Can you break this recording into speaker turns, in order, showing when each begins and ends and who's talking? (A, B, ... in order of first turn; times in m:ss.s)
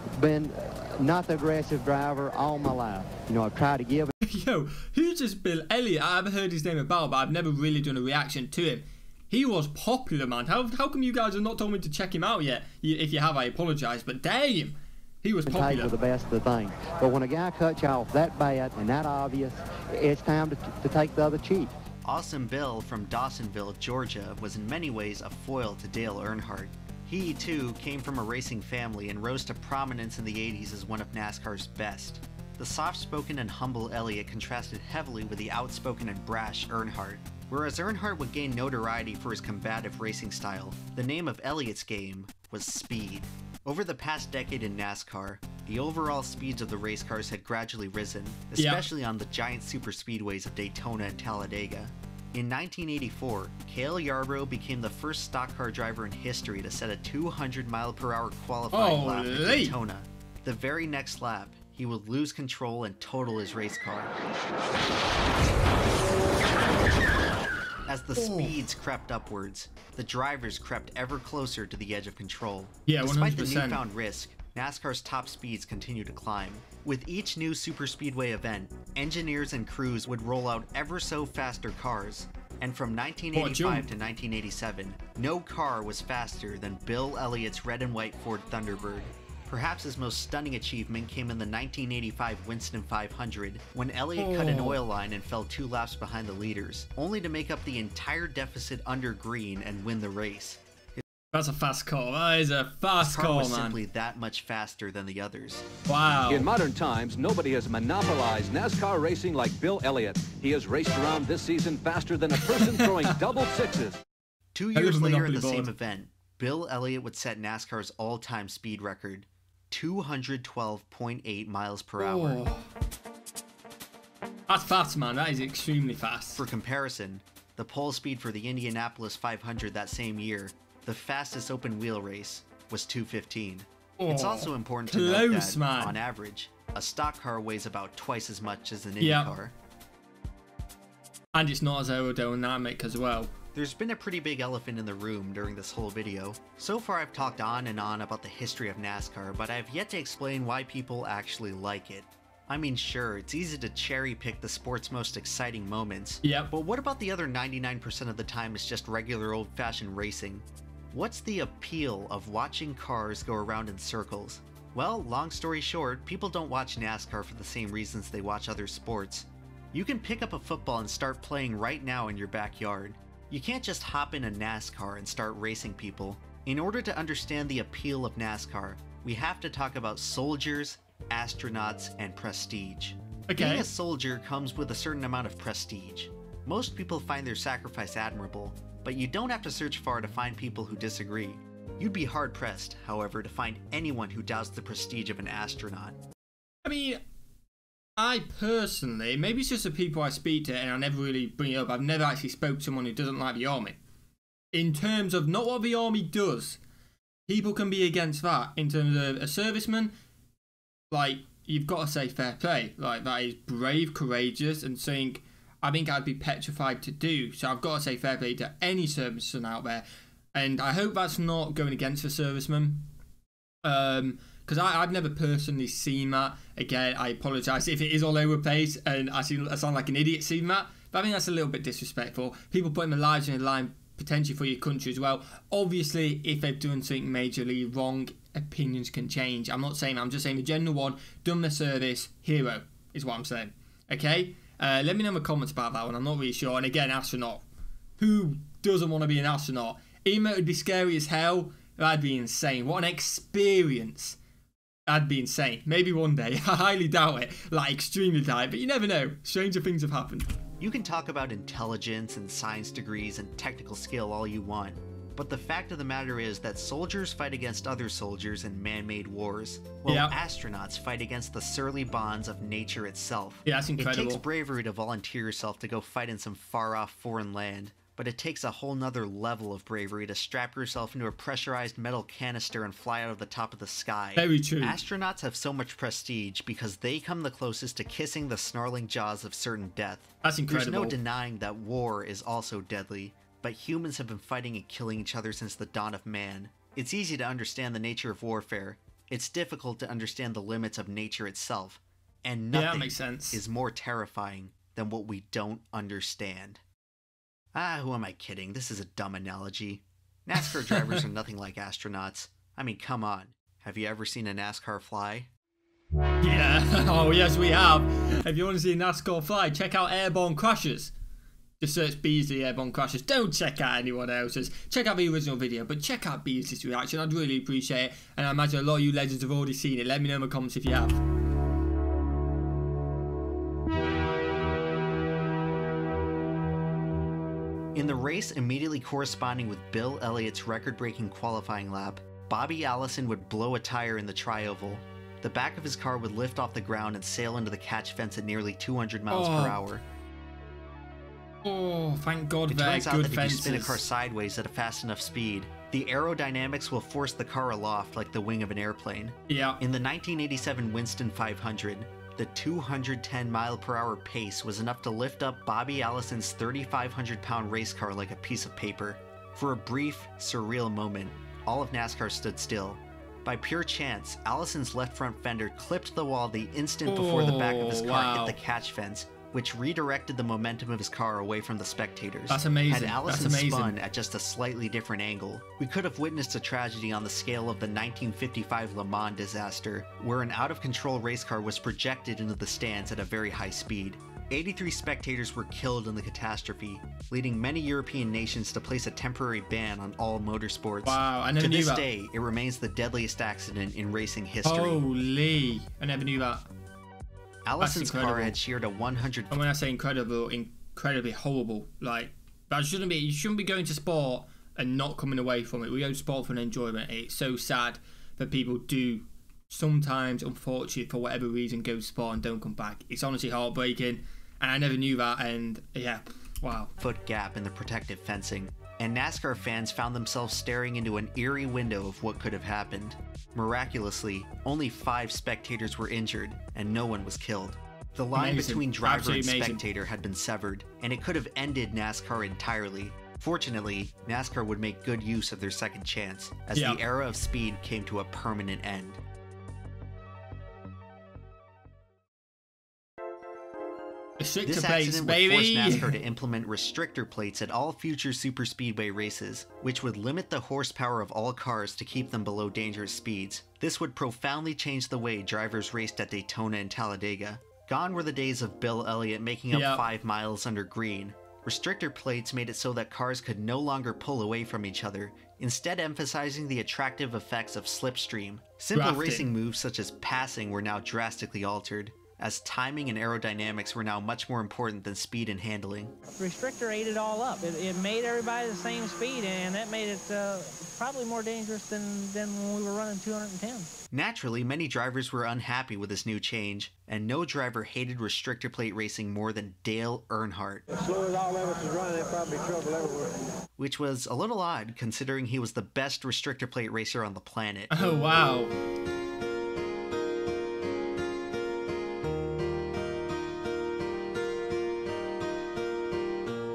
0:00.2-0:04.1 A
0:04.2-0:15.9 B
0:15.5-0:21.7 A
0:22.0-1:04.1 C
0:48.6-0:48.9 B
0:58.7-0:59.8 B
1:07.9-1:40.6 C
1:08.2-1:08.6 B
1:12.9-1:13.8 B
1:23.3-1:23.9 B
1:34.2-1:34.8 B
1:41.3-1:43.8 B
1:43.0-1:45.7 C
1:45.9-1:46.5 B
1:46.3-1:54.0 D
1:52.3-1:53.2 B
1:54.5-2:02.4 C
1:54.7-1:55.7 B
2:02.0-2:02.7 B
2:04.5-2:06.4 B
2:06.4-2:19.5 C
2:14.0-2:16.0 B
2:19.0-2:19.3 B
2:21.3-2:23.3 B
2:23.5-3:16.0 C
2:36.2-2:36.5 B
3:03.3-3:03.7 B
3:16.6-3:17.0 B
3:18.0-3:23.8 B
3:24.5-3:26.6 B
3:27.3-3:29.9 B
3:30.9-3:42.9 B
3:43.6-4:07.4 B
4:08.0-4:14.2 B
4:14.9-4:20.3 B
4:20.6-5:06.6 C
4:29.9-4:30.2 B
4:33.5-4:34.2 B
4:44.2-4:44.8 B
4:50.2-4:51.0 B
5:02.5-5:03.4 B
5:07.5-5:15.3 C
5:10.4-5:11.0 B
5:16.2-5:20.9 B
5:21.6-5:31.0 B
5:37.8-5:49.8 C
5:49.1-5:49.6 B
5:51.4-5:53.8 B
5:52.5-6:44.8 C
5:59.3-5:59.6 B
6:16.9-6:18.4 B
6:22.3-6:23.8 B
6:40.8-6:41.9 B
6:44.4-6:46.4 B
6:47.4-6:49.4 C
6:47.6-6:48.4 B
6:49.3-7:06.7 B
7:06.8-7:29.0 C
7:18.1-7:19.6 B
7:26.5-7:26.8 B
7:34.2-7:36.0 B
7:34.4-8:05.9 C
7:49.5-7:49.8 B
7:58.8-7:59.3 B
8:06.1-8:13.7 E
8:13.9-8:20.6 C
8:20.7-8:23.1 F
8:23.6-8:28.0 C
8:27.7-8:28.5 B